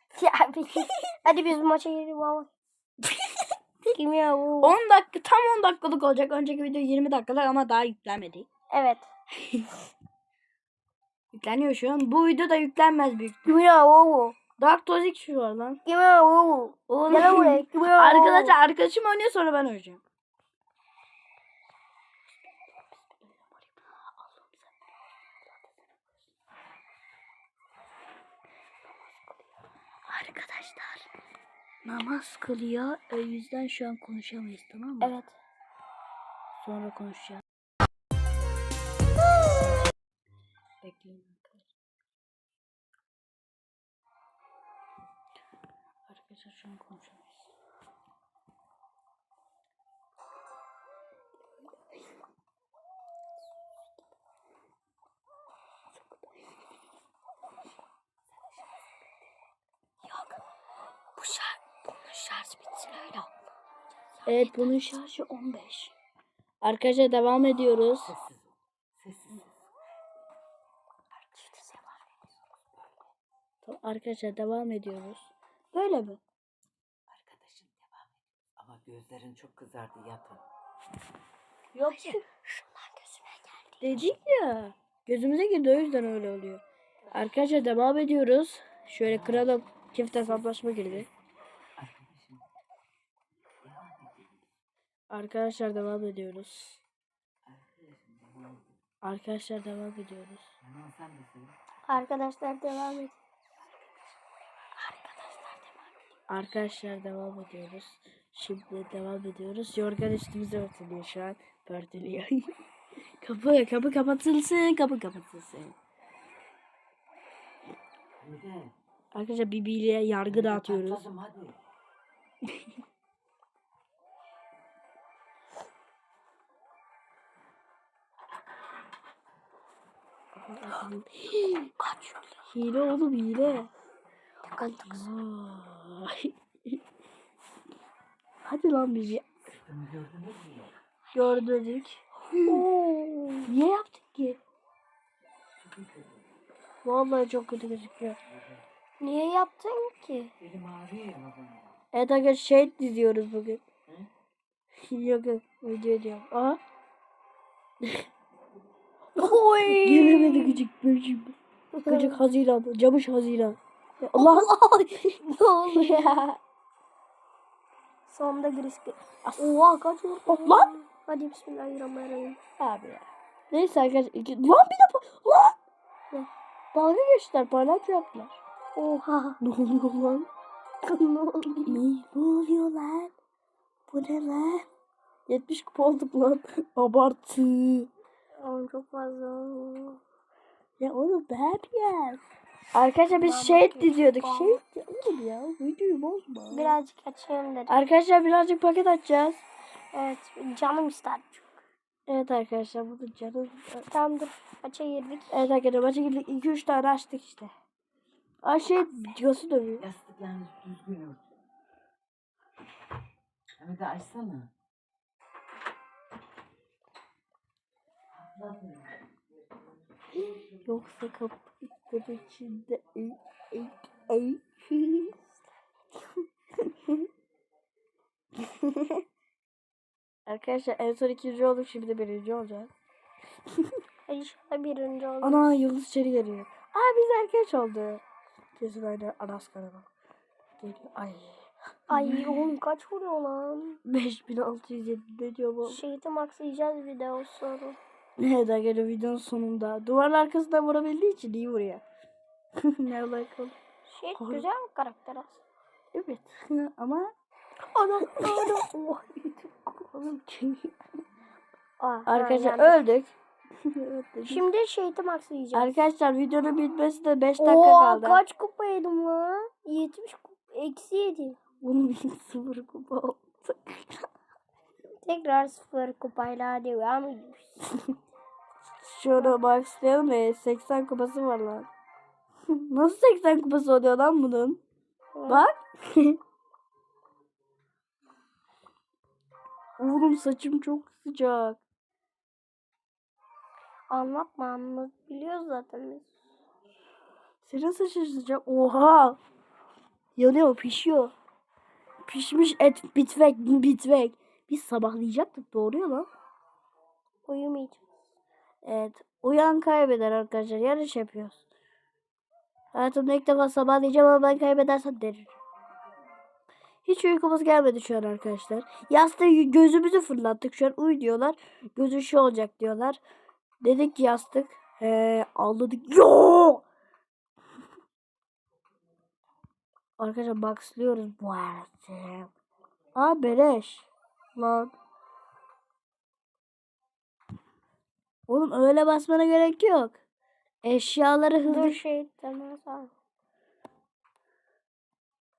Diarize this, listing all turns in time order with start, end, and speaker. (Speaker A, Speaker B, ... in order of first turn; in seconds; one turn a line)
Speaker A: 0.1-2.5
Speaker A: 3.9-4.7
Speaker B: 4.6-8.5
Speaker A: 8.7-9.1
Speaker B: 11.3-13.5
Speaker A: 13.4-14.4
Speaker B: 14.6-15.8
Speaker A: 15.8-18.6
Speaker B: 16.9-20.0
Speaker B: 23.1-24.6
Speaker B: 30.1-31.1
Speaker B: 31.8-35.1
Speaker A: 35.0-35.3
Speaker B: 36.6-37.4
Speaker B: 40.8-41.6
Speaker B: 46.1-47.3
Speaker A: 60.1-60.4
Speaker A: 61.1-63.3
Speaker A: 64.2-65.0
Speaker B: 64.2-65.9
Speaker B: 66.6-68.1
Speaker C: 68.0-69.5
Speaker A: 71.3-72.0
Speaker B: 73.6-75.3
Speaker A: 75.7-76.2
Speaker C: 77.1-80.4
Speaker B: 81.7-82.2
Speaker A: 81.8-83.8
Speaker B: 83.8-91.1
Speaker C: 89.0-89.6
Speaker C: 90.2-91.1
Speaker C: 91.8-92.4
Speaker C: 93.6-94.4
Speaker B: 95.1-96.8
Speaker C: 97.5-98.7
Speaker B: 99.0-100.5
Speaker C: 100.6-101.5
Speaker A: 101.9-103.2
Speaker A: 104.8-105.6
Speaker B: 106.3-112.5
Speaker B: 113.2-115.8
Speaker C: 118.2-118.7
Speaker B: 119.1-121.0
Speaker C: 120.3-121.6
Speaker B: 130.3-131.5
Speaker A: 131.6-132.3
Speaker B: 132.5-133.7
Speaker A: 134.5-135.1
Speaker B: 134.9-136.8
Speaker B: 138.4-139.3
Speaker C: 139.5-140.7
Speaker B: 141.1-142.6
Speaker A: 142.4-143.5
Speaker B: 143.5-144.4
Speaker C: 145.6-146.2
Speaker B: 146.8-148.2
Speaker A: 149.0-150.3
Speaker C: 150.4-151.7
Speaker B: 151.9-153.6
Speaker B: 154.9-156.6
Speaker B: 159.2-161.3
Speaker A: 159.2-160.6
Speaker A: 161.7-162.2
Speaker B: 161.9-164.4
Speaker A: 164.2-166.3
Speaker B: 165.7-166.3
Speaker A: 168.1-172.4
Speaker B: 169.2-169.5
Speaker B: 170.3-170.7
Speaker B: 172.6-175.6
Speaker B: 176.7-178.4
Speaker A: 178.8-179.4
Speaker B: 179.4-180.3
Speaker A: 180.8-181.8
Speaker B: 181.7-183.1
Speaker B: 183.9-184.7
Speaker B: 185.3-187.9
Speaker A: 188.4-190.0
Speaker B: 190.8-192.2
Speaker B: 192.7-196.7
Speaker A: 193.1-194.6
Speaker A: 196.5-197.7
Speaker B: 197.7-199.4
Speaker A: 199.9-201.6
Speaker B: 202.1-203.9
Speaker A: 203.9-205.4
Speaker B: 205.3-207.5
Speaker B: 208.4-209.8
Speaker C: 209.8-211.2
Speaker C: 213.6-214.5
Speaker C: 218.1-219.0
Speaker B: 220.5-225.1
Speaker B: 230.3-232.7
Speaker A: 234.1-235.6
Speaker B: 235.2-238.0
Speaker B: 238.6-239.9
Speaker B: 240.6-242.5
Speaker A: 241.9-243.8
Speaker B: 243.8-245.8
Speaker A: 245.6-247.8
Speaker B: 248.2-251.8
Speaker B: 252.8-253.6
Speaker A: 253.9-255.4
Speaker B: 254.1-254.4
Speaker B: 255.9-257.1
Speaker A: 257.8-258.6
Speaker B: 258.0-260.7
Speaker A: 261.8-262.8
Speaker B: 262.1-263.1
Speaker B: 263.7-264.4
Speaker A: 264.3-265.8
Speaker B: 265.5-268.2
Speaker A: 267.4-271.4
Speaker B: 271.6-274.1
Speaker A: 275.0-277.6
Speaker B: 278.8-281.7
Speaker B: 282.5-284.6
Speaker A: 285.1-285.5
Speaker B: 285.3-286.2
Speaker B: 289.8-291.6
Speaker A: 293.9-296.1
Speaker B: 297.4-299.2
Speaker B: 300.1-301.1
Speaker B: 302.1-306.1
Speaker A: 307.2-307.8
Speaker B: 308.6-311.4
Speaker B: 312.7-315.3
Speaker B: 316.8-323.0
Speaker B: 323.6-326.6
Speaker B: 330.0-332.3
Speaker B: 332.9-334.7
Speaker B: 338.3-340.0
Speaker B: 340.6-341.8
Speaker A: 341.4-342.9